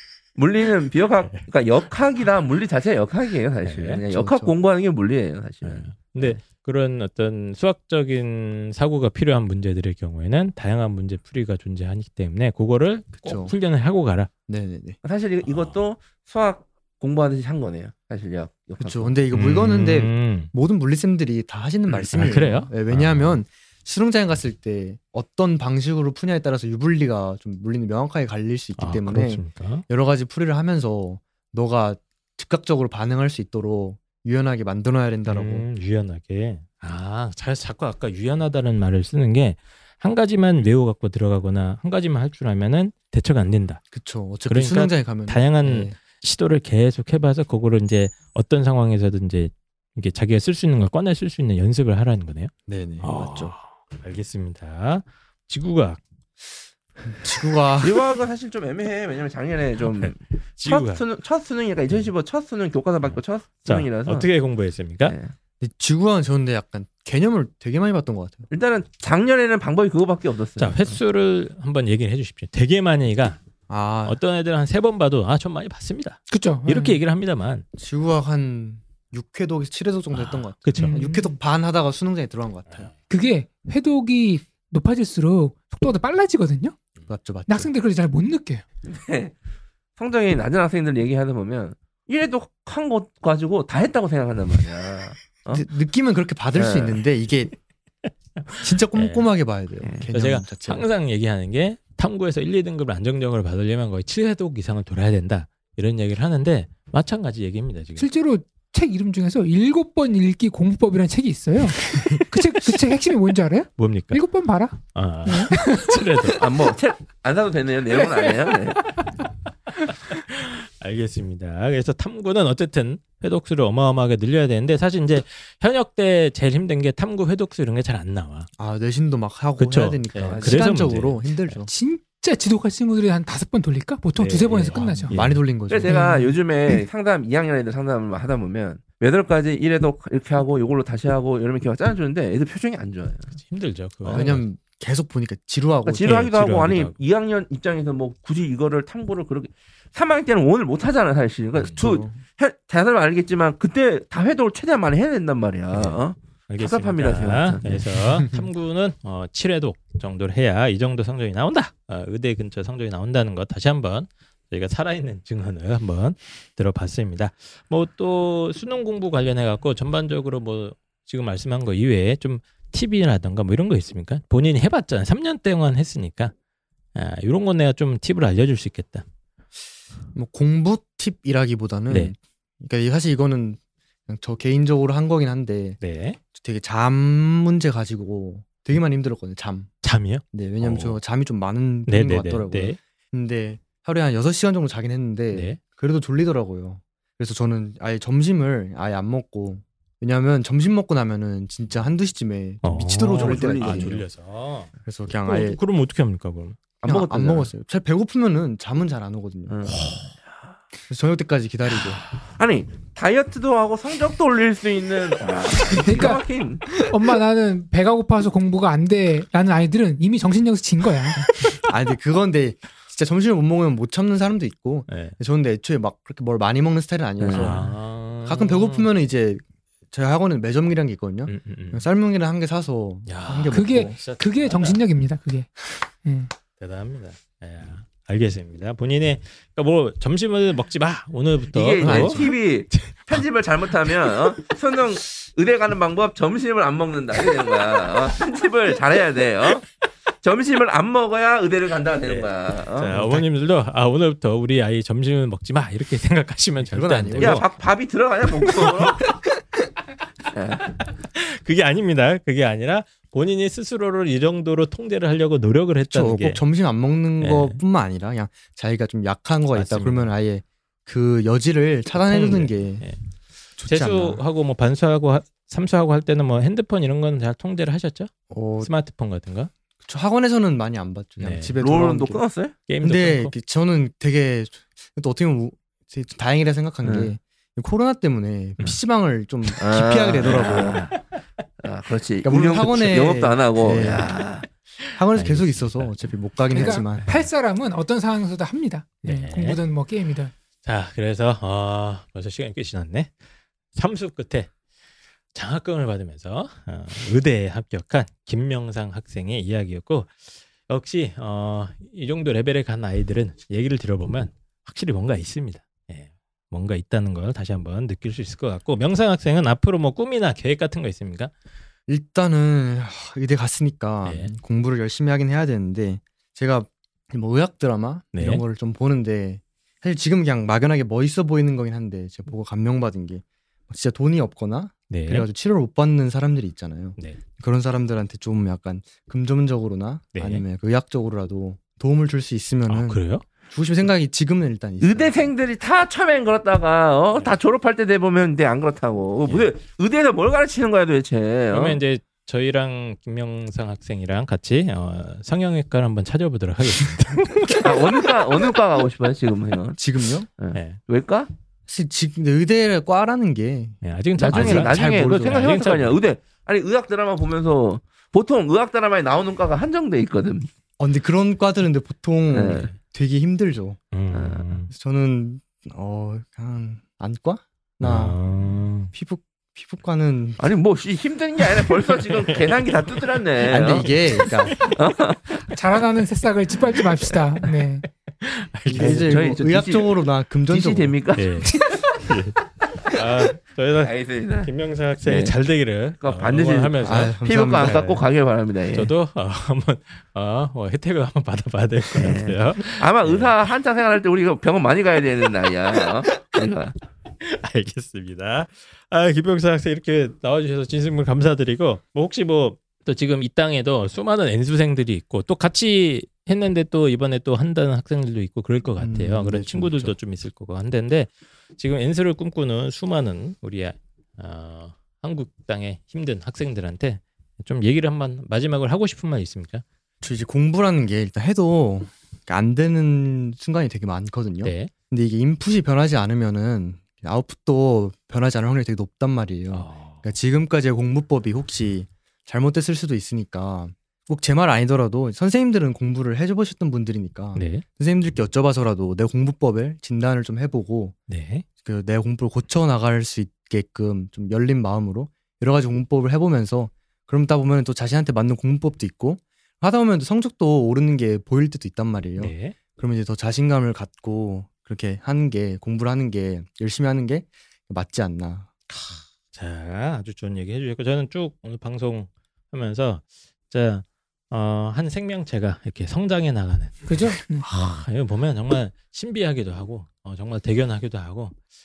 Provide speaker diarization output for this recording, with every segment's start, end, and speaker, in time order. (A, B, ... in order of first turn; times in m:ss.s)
0:00.4-0:06.3 A
0:03.6-0:04.0 B
0:04.1-0:04.5 C
0:05.6-0:14.3 B
0:13.2-0:13.5 C
0:14.5-0:15.0 C
0:15.0-0:19.2 A
0:15.5-0:15.8 B
0:18.8-0:35.7 C
0:19.3-0:20.5 B
0:22.1-0:23.4 B
0:28.8-0:29.8 B
0:35.3-0:43.8 B
0:43.9-0:46.0 C
0:44.5-0:56.0 B
0:52.7-0:53.5 C
0:57.2-0:58.0 C
0:57.8-1:04.3 A
0:59.9-1:01.0 B
1:03.1-1:05.2 B
1:05.1-1:05.3 A
1:05.6-1:08.5 C
1:08.5-1:11.0 A
1:10.6-1:13.4 B
1:13.7-1:14.2 C
1:14.0-1:17.7 B
1:16.3-1:17.0 D
1:17.8-1:22.9 C
1:20.1-1:21.0 B
1:20.8-1:21.4 D
1:23.1-1:26.8 D
1:27.1-1:27.7 C
1:27.5-1:28.6 D
1:28.9-1:29.4 A
1:30.0-1:35.6 A
1:35.5-1:37.5 C
1:36.6-1:37.0 A
1:38.5-1:39.3 B
1:38.6-1:40.9 C
1:40.1-1:48.0 B
1:48.0-1:56.4 D
1:53.8-1:54.2 B
1:54.9-1:56.4 B
1:56.4-1:59.0 A
1:59.9-2:08.5 B
2:08.6-2:11.7 C
2:09.6-2:11.6 B
2:10.3-2:10.6 A
2:11.7-2:15.2 D
2:14.2-2:15.4 B
2:15.1-2:16.0 C
2:15.7-2:23.4 A
2:15.8-2:16.8 D
2:23.3-2:24.4 B
2:24.1-2:26.2 C
2:25.8-2:37.8 A
2:26.0-2:27.0 B
2:31.7-2:32.2 C
2:35.7-2:56.3 B
2:38.1-2:38.4 C
2:57.0-2:59.0 B
3:00.1-3:05.8 C
3:05.8-3:06.2 B
3:06.3-3:09.7 C
3:09.8-3:11.0 B
3:10.3-3:24.0 C
3:11.9-3:12.8 B
3:15.3-3:15.6 B
3:22.6-3:24.7 B
3:23.1-3:24.0 A
3:24.8-3:25.6 C
3:25.2-3:26.6 B
3:26.8-3:27.5 A
3:26.8-3:29.6 C
3:29.5-3:30.1 A
3:30.9-3:32.0 C
3:32.4-3:36.9 A
3:35.7-3:41.3 D
3:41.7-3:54.0 C
3:44.9-3:45.2 B
3:47.2-3:47.6 A
3:47.3-3:48.9 B
3:51.3-3:51.8 B
3:53.1-3:54.8 B
3:53.5-3:56.3 D
3:56.6-4:03.2 B
4:01.5-4:09.6 A
4:01.8-4:02.4 C
4:03.9-4:04.1 B
4:10.2-4:13.0 A
4:12.1-4:17.5 B
4:16.6-4:17.5 C
4:17.2-4:19.2 A
4:18.4-4:19.2 B
4:20.3-4:20.7 A
4:20.6-4:26.4 B
4:25.9-4:32.9 C
4:27.2-4:27.6 B
4:29.5-4:30.1 B
4:32.0-4:33.0 B
4:33.6-4:34.2 C
4:33.6-4:39.5 B
4:38.3-4:38.7 C
4:39.8-4:42.2 C
4:41.2-4:41.6 B
4:41.6-4:42.6 A
4:42.7-4:43.3 B
4:42.8-4:50.8 C
4:49.6-4:50.9 A
4:50.6-4:51.0 B
4:51.6-4:54.5 A
4:52.2-4:54.2 C
4:54.8-4:56.0 B
4:54.9-4:57.1 C
4:56.5-5:00.3 D
4:59.0-4:59.6 B
5:00.6-5:03.1 B
5:03.7-5:04.5 B
5:05.3-5:21.3 B
5:21.9-5:45.2 C
5:24.0-5:24.3 B
5:28.1-5:28.4 B
5:34.9-5:35.3 B
5:40.2-5:40.4 B
5:42.7-5:43.2 B
5:44.8-5:51.8 A
5:51.5-5:58.2 B
5:57.6-5:59.8 A
5:59.8-6:00.3 C
6:00.4-6:01.3 A
6:00.5-6:00.8 B
6:01.7-6:03.8 C
6:03.8-6:06.0 B
6:04.2-6:10.5 A
6:04.3-6:05.6 C
6:10.8-6:13.8 C
6:12.3-6:12.7 A
6:13.9-6:14.7 B
6:14.1-6:14.5 A
6:14.7-6:18.2 C
6:17.8-6:18.9 B
6:18.9-6:20.4 C
6:20.4-6:23.9 A
6:22.1-6:23.0 B
6:23.5-6:24.6 C
6:23.8-6:24.7 B
6:24.6-6:25.3 A
6:25.5-6:27.8 D
6:28.2-6:29.4 B
6:28.7-6:31.0 C
6:28.7-6:31.3 A
6:31.2-6:38.0 B
6:33.8-6:34.5 A
6:35.0-6:35.3 A
6:36.0-6:38.9 A
6:36.8-6:37.9 C
6:38.7-6:43.3 B
6:41.9-6:46.8 A
6:47.2-7:09.6 B
6:58.8-7:00.0 C
7:10.0-7:31.0 C
7:14.4-7:14.7 B
7:19.5-7:20.0 B
7:27.4-7:27.6 B
7:31.1-7:31.4 B
7:31.6-7:48.5 C
7:42.2-7:42.6 B
7:48.7-8:01.4 B
7:56.9-7:57.5 D